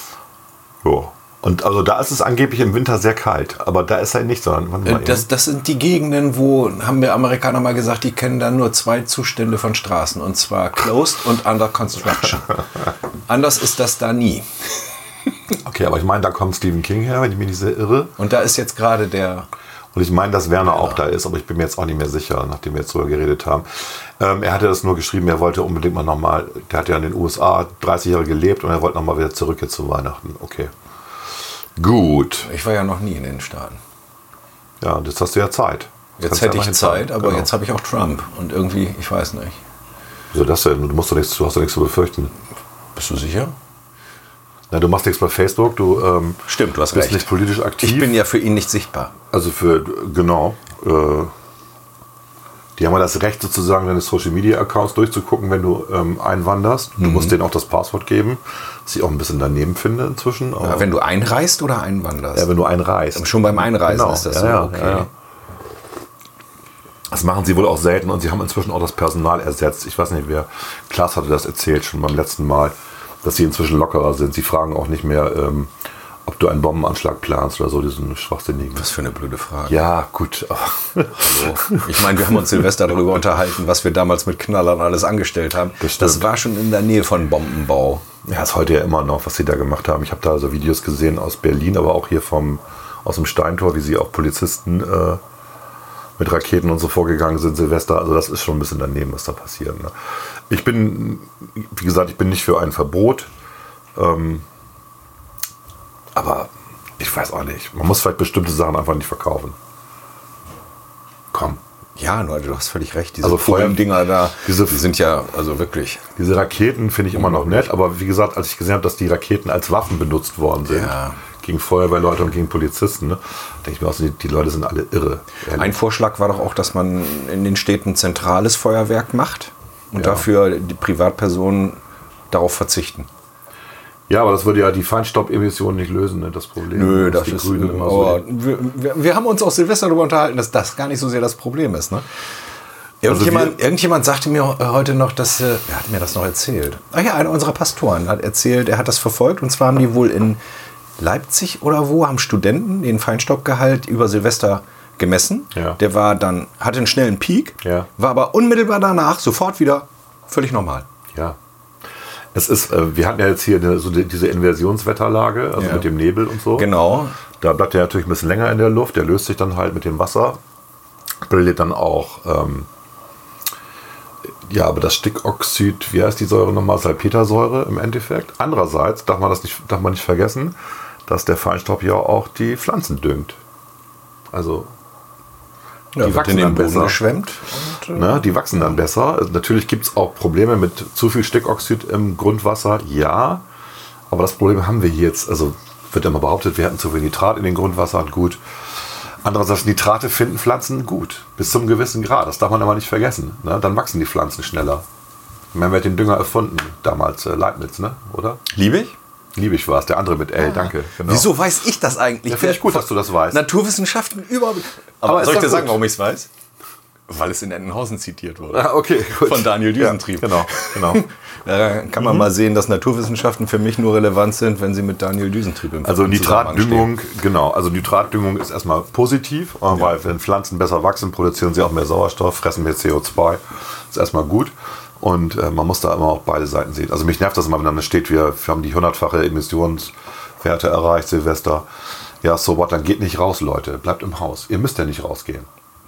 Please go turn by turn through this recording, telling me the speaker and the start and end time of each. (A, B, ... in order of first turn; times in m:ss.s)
0:00.8-0:05.2 A
0:04.8-0:12.6 B
0:13.3-0:14.5 B
0:15.6-0:18.1 A
0:18.2-0:19.5 B
0:19.9-0:30.7 A
0:20.6-0:21.0 B
0:31.8-0:32.5 A
0:32.4-0:33.8 B
0:34.8-0:37.5 A
0:36.2-0:39.6 B
0:40.3-0:42.3 A
0:43.0-0:43.6 B
0:44.7-0:48.2 A
0:46.5-0:47.3 B
0:47.8-0:49.1 B
0:49.3-0:51.3 A
0:52.8-1:00.9 A
0:57.0-0:57.3 B
1:00.6-1:02.5 B
1:02.3-1:05.1 A
1:03.1-1:05.1 B
1:07.1-1:15.7 A
1:16.2-1:18.8 A
1:18.7-1:19.8 B
1:19.7-1:22.2 A
1:21.2-1:28.0 B
1:25.8-1:26.3 A
1:28.2-1:35.2 A
1:36.2-1:39.9 A
1:40.5-1:43.3 A
1:44.0-1:44.4 A
1:46.1-1:49.6 A
1:51.3-1:51.6 A
1:52.0-1:56.0 B
1:53.2-1:54.8 A
1:56.2-2:05.7 A
1:57.1-1:57.6 B
2:00.6-2:01.2 B
2:05.5-2:11.8 B
2:09.9-2:10.2 A
2:12.3-2:13.1 B
2:14.1-2:18.2 A
2:16.7-2:22.0 B
2:23.0-2:30.4 B
2:23.0-2:23.6 A
2:31.0-2:40.8 B
2:37.6-2:37.9 A
2:42.3-2:46.7 A
2:45.6-2:45.9 B
2:46.5-2:47.2 B
2:47.4-2:50.4 A
2:51.2-2:52.7 A
2:54.4-3:00.5 A
3:01.1-3:03.4 A
3:04.3-3:04.7 A
3:05.9-3:08.3 B
3:06.0-3:07.0 A
3:07.9-3:13.4 A
3:14.1-3:18.4 A
3:19.2-3:24.8 A
3:25.5-3:28.4 A
3:28.5-3:29.0 B
3:29.4-3:31.3 A
3:30.4-3:36.3 B
3:32.3-3:33.4 A
3:35.0-3:35.8 A
3:37.1-3:46.9 B
3:38.5-3:41.0 A
3:42.0-3:42.3 A
3:45.8-4:01.7 A
4:02.2-4:05.5 A